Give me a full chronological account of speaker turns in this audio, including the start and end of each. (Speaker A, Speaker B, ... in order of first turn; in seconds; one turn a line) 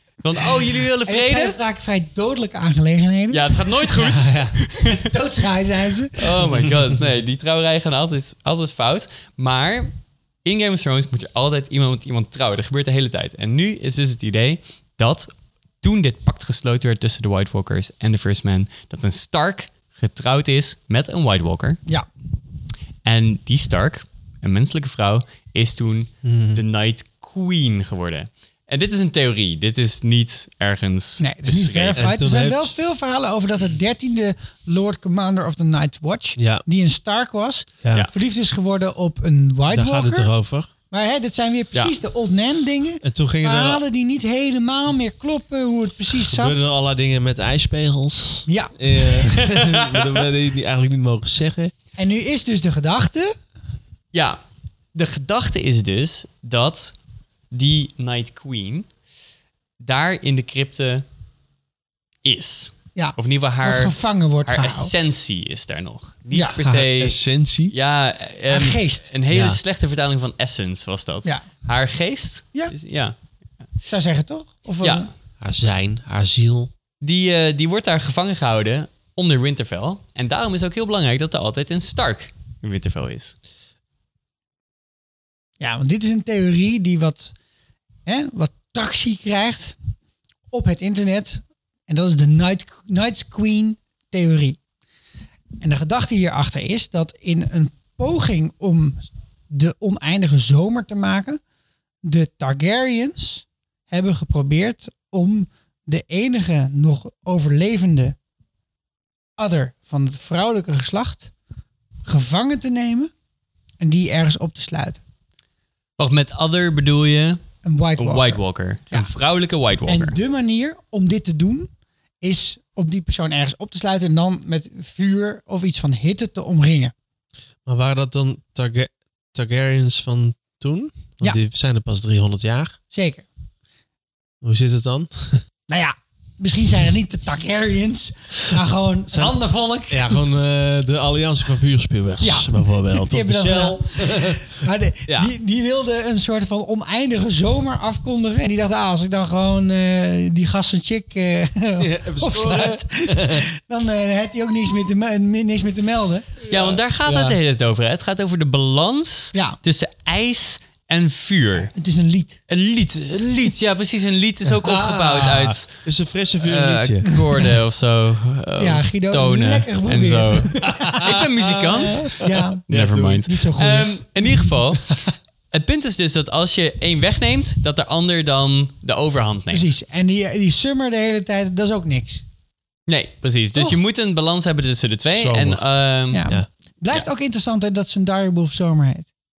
Speaker A: 0.2-1.6
Speaker B: 1.1-4.0
Speaker A: 3.3-5.1
Speaker C: 4.0-4.5
Speaker B: 4.8-6.4
Speaker A: 6.2-21.8
Speaker C: 6.5-7.0
Speaker A: 23.1-32.1
Speaker C: 26.2-26.6
Speaker B: 31.2-40.3
Speaker C: 32.0-32.8
Speaker C: 36.4-36.6
Speaker C: 39.7-40.7
Speaker B: 40.9-46.6
Speaker C: 43.0-43.8
Speaker C: 46.2-51.7
Speaker B: 48.5-48.8
Speaker A: 49.3-50.1
Speaker B: 52.0-53.4
Speaker A: 54.1-54.4
Speaker A: 54.9-57.0
Speaker A: 57.5-58.9
Speaker A: 59.8-61.0
Speaker A: 62.2-63.9
Speaker B: 63.0-64.9
Speaker A: 64.5-73.2
Speaker B: 66.3-66.6
Speaker C: 66.6-67.7
Speaker B: 68.5-69.1
Speaker C: 69.3-69.6
Speaker B: 73.9-75.1
Speaker A: 74.8-75.1
Speaker C: 75.4-76.7
Speaker A: 77.0-83.3
Speaker B: 85.6-87.3
Speaker B: 88.1-89.8
Speaker B: 90.5-94.6
Speaker B: 95.6-101.4
Speaker B: 102.0-108.2
Speaker B: 109.4-111.3
Speaker B: 112.1-113.1
Speaker B: 113.8-115.0
Speaker A: 116.0-117.4
Speaker B: 117.6-119.1
Speaker A: 118.0-120.2
Speaker B: 119.9-121.7
Speaker B: 122.2-126.9
Speaker C: 127.7-132.8
Speaker B: 132.9-133.3
Speaker C: 134.4-135.4
Speaker B: 135.7-140.2
Speaker C: 139.9-144.6
Speaker B: 142.2-156.4
Speaker C: 145.1-145.3
Speaker C: 151.8-153.5
Speaker A: 156.5-161.7
Speaker C: 156.5-157.4
Speaker B: 161.7-162.4
Speaker A: 162.5-165.8
Speaker C: 164.9-167.1
Speaker A: 166.4-179.8
Speaker B: 168.6-172.7
Speaker C: 170.7-173.3
Speaker B: 173.2-174.0
Speaker B: 179.5-182.2
Speaker A: 182.9-186.3
Speaker C: 185.1-185.7
Speaker B: 186.1-189.1